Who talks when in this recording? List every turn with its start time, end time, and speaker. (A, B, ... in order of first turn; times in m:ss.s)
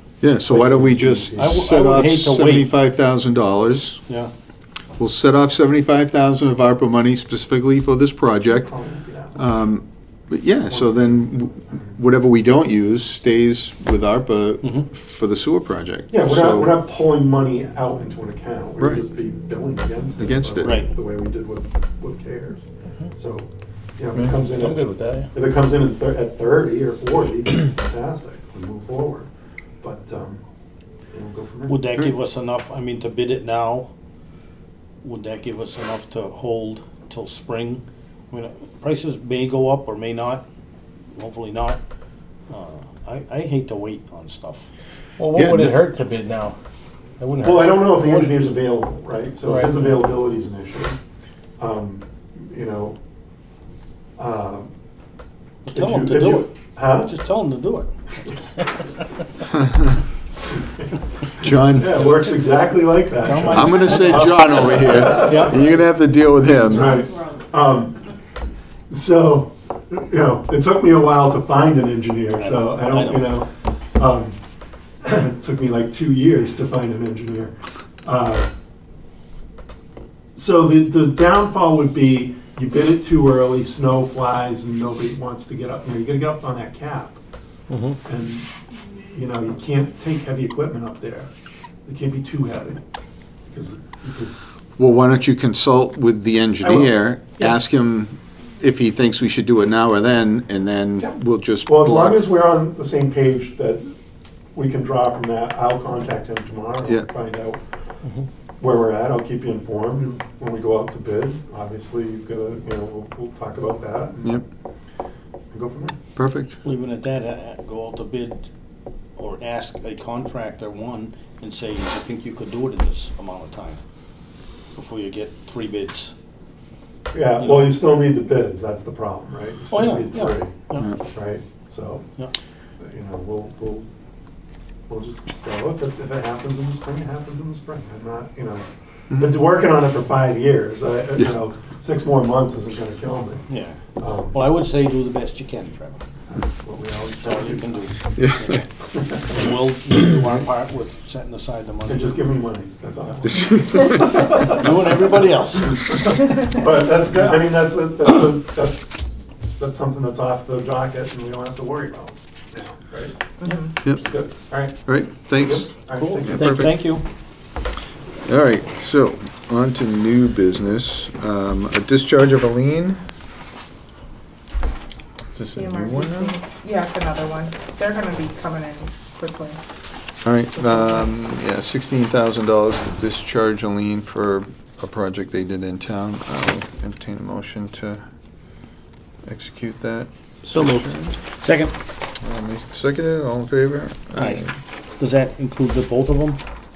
0:00.2-0:04.0 A
0:00.4-0:01.6 B
0:01.4-0:02.7 C
0:05.0-0:08.7 A
0:08.6-0:09.4 B
0:09.3-0:16.8 A
0:10.7-0:12.0 B
0:16.1-0:29.3 B
0:20.2-0:20.8 A
0:20.6-0:20.9 C
0:24.6-0:25.3 D
0:29.8-0:30.4 B
0:31.1-0:31.8 B
0:31.7-0:33.9 C
0:35.0-0:40.4 C
0:41.1-0:41.8 C
0:42.5-0:44.7 C
0:45.2-0:46.6 D
0:45.3-0:45.8 A
0:47.2-0:48.3 D
0:47.4-0:51.0 B
0:49.4-0:50.0 D
0:51.6-0:53.0 B
0:54.2-0:54.7 B
0:55.6-0:57.9 C
0:55.7-0:57.1 B
0:59.5-1:00.0 A
1:00.6-1:00.9 B
1:01.4-1:02.4 A
1:01.4-1:05.8 B
1:03.2-1:05.7 C
1:03.4-1:07.0 A
1:06.5-1:08.0 B
1:08.9-1:14.4 B
1:12.4-1:13.3 C
1:15.0-1:18.5 B
1:20.3-1:27.2 B
1:27.7-1:28.0 C
1:28.0-1:31.3 B
1:31.8-1:32.8 B
1:33.5-1:34.4 B
1:34.8-1:42.3 A
1:36.6-1:36.9 B
1:41.6-1:43.8 B
1:44.5-1:47.6 B
1:48.6-1:54.4 B
1:55.5-1:56.0 B
1:56.2-1:56.6 A
1:56.6-1:58.5 C
1:59.2-2:03.8 C
2:04.8-2:06.1 C
2:07.1-2:12.0 B
2:07.4-2:07.7 C
2:09.7-2:10.9 C
2:12.8-2:13.9 B
2:14.9-2:23.4 B
2:23.5-2:23.8 C
2:24.0-2:24.4 B
2:24.3-2:26.0 C
2:26.3-2:27.8 B
2:27.2-2:28.6 C
2:28.2-2:28.6 A
2:28.9-2:29.4 B
2:29.3-2:32.2 C
2:31.9-2:34.7 B
2:33.2-2:34.3 A
2:34.2-2:36.2 C
2:35.7-2:39.0 B
2:39.6-2:46.7 B
2:43.4-2:43.7 E
2:44.8-2:46.8 A
2:45.9-2:47.0 C
2:48.2-2:53.0 A
2:55.3-2:56.3 A
2:55.5-2:59.6 E
3:00.2-3:08.0 A
3:00.5-3:01.0 E
3:09.2-3:11.1 A
3:10.4-3:11.0 D
3:11.4-3:11.7 C
3:12.2-3:14.5 A
3:14.1-3:14.4 C
3:15.0-3:16.4 C